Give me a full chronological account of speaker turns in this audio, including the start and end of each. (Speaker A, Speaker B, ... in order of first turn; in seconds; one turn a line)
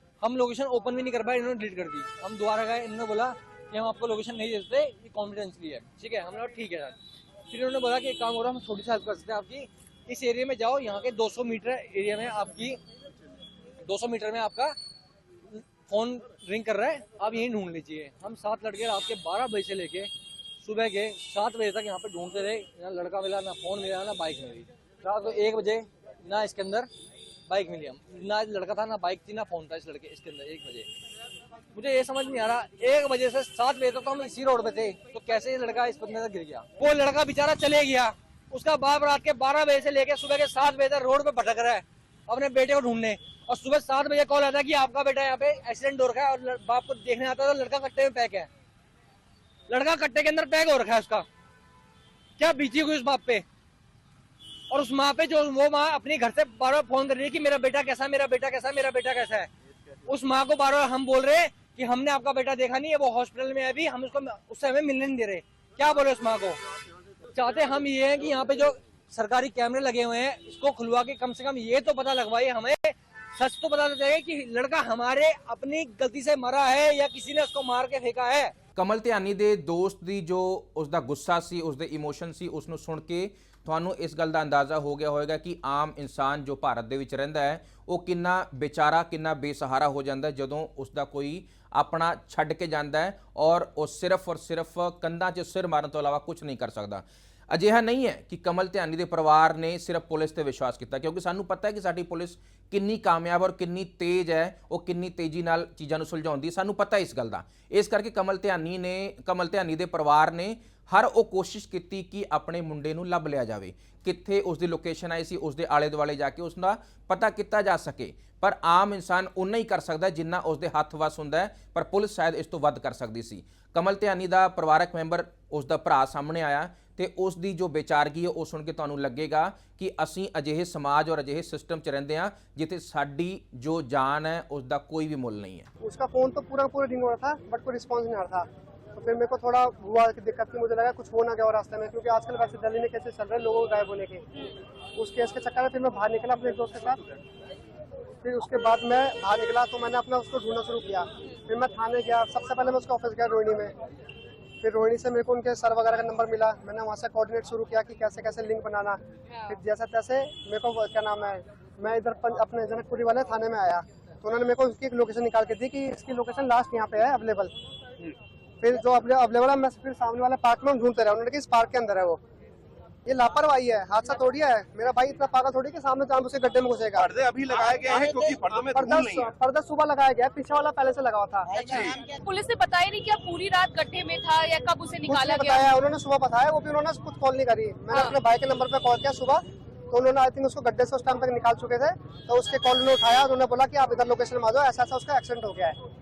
Speaker A: 0.2-7.0
Speaker A: 7.5-12.8
Speaker A: 13.8-14.8
Speaker A: 15.9-20.1
Speaker A: 20.6-26.9
Speaker A: 27.5-30.9
Speaker A: 31.7-48.5
Speaker A: 49.7-51.3
Speaker A: 52.4-53.5
Speaker A: 54.7-59.5
Speaker A: 60.1-66.6
Speaker A: 67.3-78.5
Speaker B: 78.8-135.7
Speaker C: 135.8-144.4
Speaker C: 145.0-147.0
Speaker C: 148.2-153.7
Speaker C: 154.6-167.5
Speaker D: 159.3-159.6
Speaker C: 168.6-172.2
Speaker C: 173.1-177.1
Speaker E: 177.0-179.3
Speaker C: 178.7-181.9
Speaker E: 181.6-182.0
Speaker D: 182.2-185.7
Speaker C: 185.1-195.8